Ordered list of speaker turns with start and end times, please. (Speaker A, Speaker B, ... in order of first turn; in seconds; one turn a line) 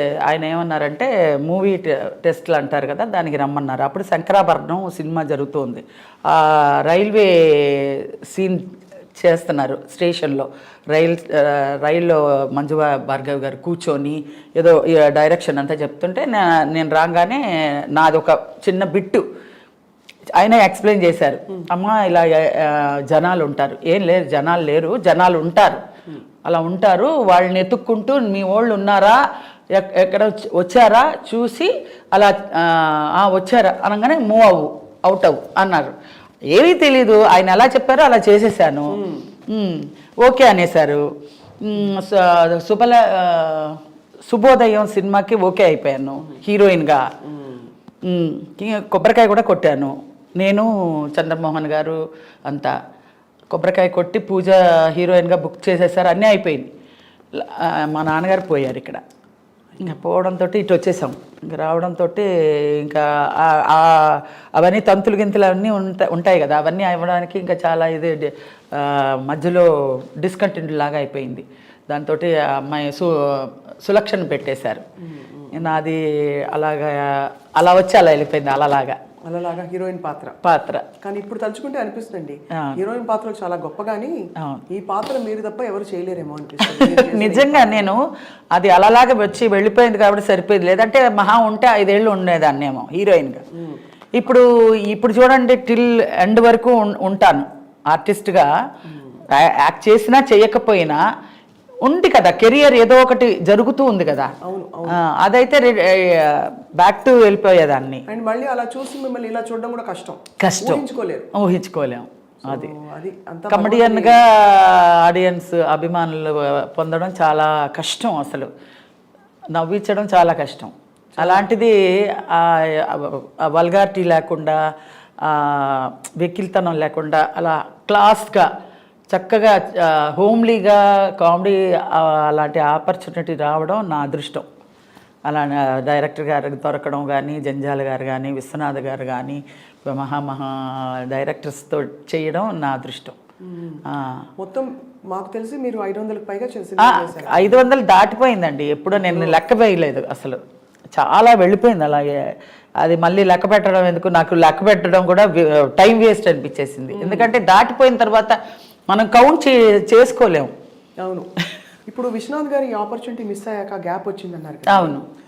Speaker A: 0.2-19.2
Speaker A: 20.4-25.8
Speaker A: 26.4-29.2
Speaker A: 29.7-35.9
Speaker A: 36.5-41.1
Speaker B: 38.9-39.3
Speaker A: 41.6-47.1
Speaker B: 47.3-47.7
Speaker A: 48.0-52.8
Speaker A: 53.5-56.7
Speaker A: 57.4-59.0
Speaker A: 59.8-69.7
Speaker A: 70.2-74.8
Speaker B: 75.0-75.7
Speaker A: 75.5-79.0
Speaker B: 79.3-80.4
Speaker A: 80.4-80.9
Speaker B: 81.0-84.2
Speaker A: 84.4-84.7
Speaker B: 84.7-87.9
Speaker A: 86.6-93.4
Speaker B: 93.5-93.8
Speaker A: 94.1-98.5
Speaker B: 98.9-99.2
Speaker A: 99.3-101.0
Speaker A: 101.8-104.4
Speaker B: 104.4-105.0
Speaker A: 104.9-108.0
Speaker B: 108.1-111.3
Speaker A: 110.4-110.8
Speaker A: 111.3-112.7
Speaker B: 112.4-114.2
Speaker A: 113.5-118.5
Speaker A: 119.5-124.6
Speaker B: 121.2-121.5
Speaker A: 125.2-128.5
Speaker A: 129.1-134.5
Speaker A: 135.3-143.2
Speaker B: 143.4-143.8
Speaker A: 143.9-144.2
Speaker B: 144.4-147.6
Speaker A: 146.8-150.4
Speaker B: 148.9-149.4
Speaker A: 150.9-152.1
Speaker A: 152.8-158.4
Speaker B: 156.9-157.3
Speaker A: 158.9-160.5
Speaker B: 161.9-165.0
Speaker A: 164.7-165.1